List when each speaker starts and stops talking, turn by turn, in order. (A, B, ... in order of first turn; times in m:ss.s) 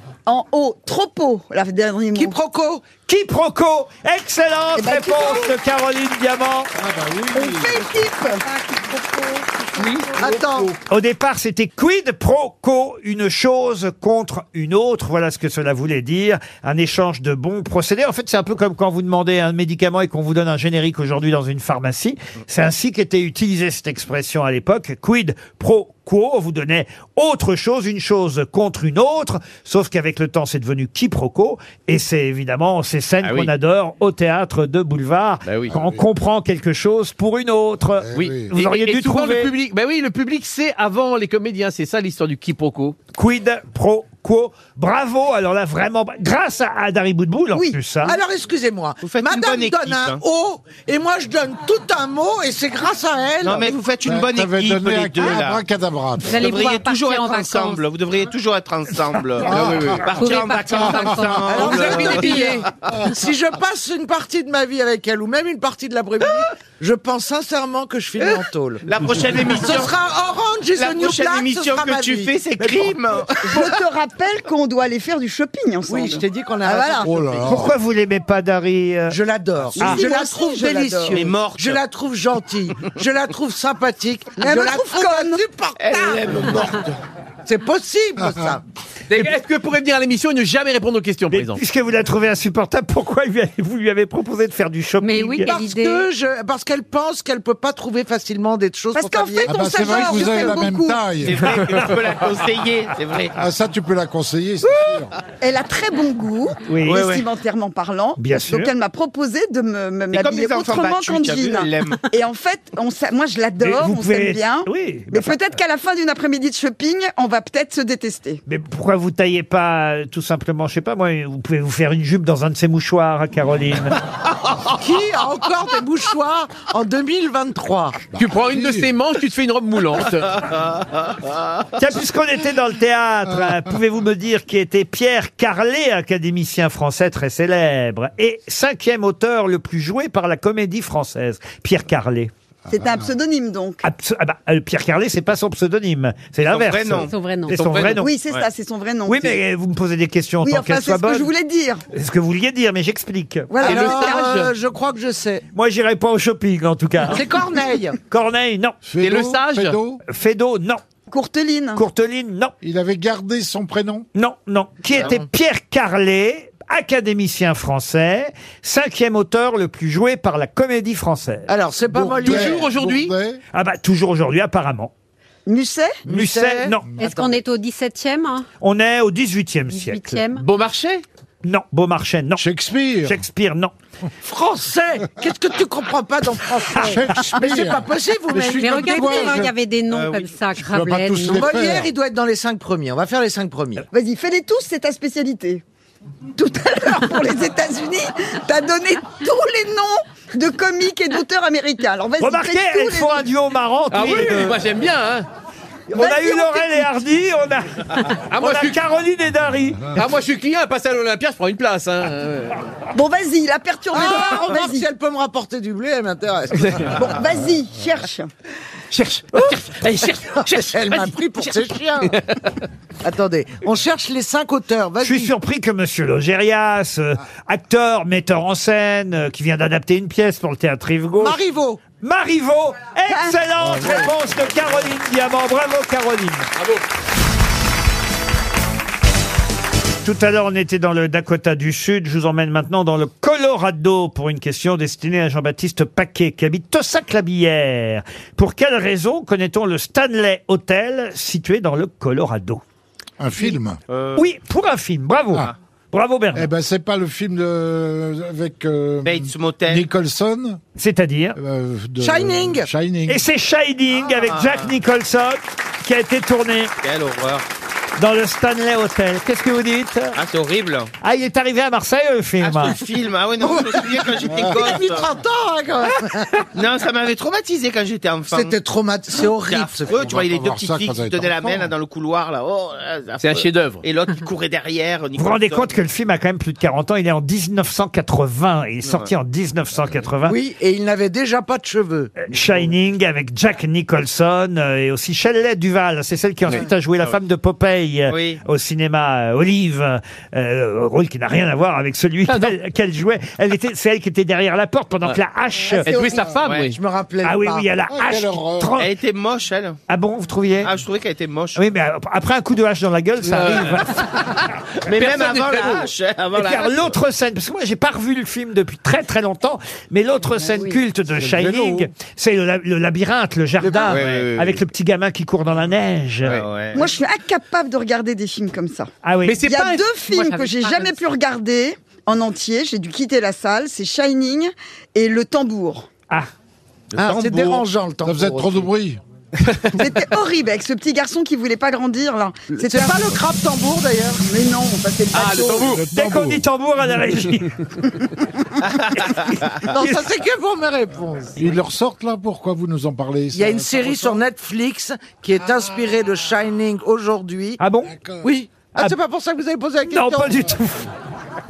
0:00.2-0:02.4 A
0:02.2-0:02.9 B
0:03.0-0:06.7 C
0:04.8-0:05.5 A
0:06.8-0:08.0 D
0:07.3-0:10.4 A
0:10.2-0:10.8 B
0:10.8-0:39.5 C
0:33.2-0:33.5 E
0:35.4-0:35.7 E
0:35.7-0:36.0 D
0:38.0-0:38.5 D
0:38.1-0:43.0 E
0:43.1-0:48.2 C
0:47.5-0:48.1 A
0:48.0-0:53.7 B
0:49.0-0:50.2 F
0:53.4-0:55.6 F
0:54.0-0:56.4 D
0:56.2-0:57.8 G
0:56.3-1:02.7 F
0:59.4-1:00.0 D
0:59.4-1:00.1 E
1:00.2-1:02.4 G
1:00.7-1:01.3 D
1:01.5-1:12.3 B
1:01.6-1:02.6 E
1:08.2-1:10.0 F
1:10.7-1:13.7 F
1:13.4-1:17.1 A
1:15.9-1:17.7 B
1:17.0-1:17.7 D
1:17.4-1:19.2 C
1:19.1-1:26.7 B
1:19.8-1:21.2 A
1:21.1-1:21.8 F
1:24.4-1:25.4 A
1:25.8-1:26.9 F
1:27.4-1:28.6 B
1:28.2-1:28.6 D
1:29.1-1:31.6 E
1:31.3-1:35.5 C
1:35.0-1:36.0 G
1:35.4-1:40.5 B
1:38.9-1:41.1 A
1:39.4-1:41.5 D
1:41.2-1:43.4 F
1:43.3-1:45.1 D
1:45.4-1:58.4 A
1:46.6-1:47.0 C
1:46.8-1:47.2 F
1:48.2-1:48.7 C
1:50.1-1:52.0 F
1:53.6-1:55.4 C
1:58.5-2:04.0 C
2:04.7-2:08.0 B
2:08.1-2:08.9 D
2:08.2-2:10.4 E
2:11.8-2:22.3 C
2:22.7-2:23.8 A
2:22.7-2:23.0 D
2:23.8-2:28.1 C
2:26.4-2:27.1 F
2:27.1-2:27.6 G
2:27.5-2:28.0 E
2:28.0-2:29.4 A
2:29.0-2:31.3 C
2:30.4-2:31.8 A
2:31.9-2:33.5 C
2:33.5-2:34.4 A
2:33.6-2:35.4 B
2:33.6-2:34.5 E
2:35.5-2:37.2 C
2:37.0-2:38.0 B
2:38.1-2:38.8 C
2:38.8-2:40.0 D
2:39.0-2:39.8 E
2:40.1-2:40.8 C
2:41.1-2:41.8 A
2:41.8-2:42.5 C
2:42.6-2:44.1 D
2:44.1-2:51.5 C
2:45.0-2:45.2 B
2:51.5-2:52.7 B
2:51.9-2:53.4 D
2:52.2-2:53.1 E
2:53.5-2:54.9 C
2:55.4-2:56.0 A
2:56.1-2:56.8 C
2:56.1-2:57.3 B
2:57.0-2:58.5 G
2:58.6-3:00.2 C
2:59.7-3:00.4 G
3:00.4-3:01.0 E
3:01.4-3:02.4 C
3:02.4-3:03.2 D
3:03.0-3:03.7 C
3:04.2-3:09.4 B
3:06.8-3:09.5 D
3:08.3-3:11.5 G
3:09.9-3:10.3 F
3:10.6-3:11.9 D
3:11.3-3:13.8 B
3:13.9-3:15.6 A
3:16.4-3:23.3 A
3:22.2-3:24.6 C
3:23.9-3:25.3 E
3:25.9-3:29.9 C
3:25.9-3:26.9 A
3:28.3-3:28.8 E
3:30.0-3:32.6 E
3:32.9-3:34.9 A
3:33.9-3:37.1 B
3:36.6-3:36.9 E
3:36.9-3:38.3 A
3:38.9-3:41.1 E
3:40.4-3:42.2 B
3:42.0-3:42.5 E
3:43.0-3:45.3 B
3:45.0-3:51.4 C
3:51.2-3:51.8 B
3:51.9-3:56.5 C
3:53.1-3:53.9 A
3:53.6-3:54.8 D
3:56.6-3:56.8 E
4:00.0-4:12.6 C
4:13.2-4:13.8 D
4:13.9-4:14.3 F
4:14.1-4:16.5 C
4:16.3-4:20.6 D
4:19.0-4:19.8 F
4:20.8-4:21.4 C
4:21.4-4:23.2 D
4:22.0-4:22.7 B
4:23.1-4:26.7 C
4:23.9-4:24.7 F
4:26.8-4:27.4 F
4:28.0-4:30.2 C
4:30.1-4:30.9 F
4:31.0-4:32.8 C
4:32.4-4:35.1 F
4:33.4-4:36.3 B
4:34.3-4:34.6 D
4:36.5-4:38.6 F
4:38.3-4:40.1 B
4:39.4-4:45.8 F
4:39.9-4:41.7 D
4:43.2-4:43.8 E
4:45.2-4:50.4 C
4:48.8-4:49.1 F
4:50.2-4:52.1 B
4:52.2-5:06.0 C
4:58.1-4:58.4 F
5:02.3-5:02.6 E
5:05.8-5:06.7 E
5:06.4-5:06.8 F
5:06.7-5:07.7 B
5:07.2-5:08.9 C
5:07.9-5:08.8 D
5:08.8-5:09.8 F
5:09.9-5:10.7 C
5:10.6-5:11.6 F
5:11.6-5:14.1 C
5:13.2-5:15.9 E
5:14.8-5:17.0 F
5:16.3-5:26.4 C
5:20.4-5:20.8 G
5:21.2-5:21.9 D
5:23.6-5:24.0 B
5:23.7-5:24.4 E
5:23.8-5:24.4 F
5:26.2-5:26.9 F
5:26.7-5:28.9 A
5:29.0-5:29.4 C
5:29.2-5:29.8 E
5:29.4-5:35.9 A
5:30.1-5:31.0 G
5:36.9-5:37.6 F
5:37.0-5:38.7 B
5:38.0-5:39.0 D
5:39.5-5:39.7 E
5:39.7-5:43.2 A
5:42.5-5:44.2 B
5:44.3-5:45.8 A
5:45.1-5:45.8 E
5:45.6-5:46.4 D
5:45.9-5:47.5 C
5:49.0-5:50.1 C
5:49.7-5:51.4 B
5:51.4-5:54.2 D
5:53.3-5:57.6 B
5:57.6-5:57.9 C
5:57.9-5:58.2 D
5:58.2-6:00.4 B
5:59.9-6:00.9 C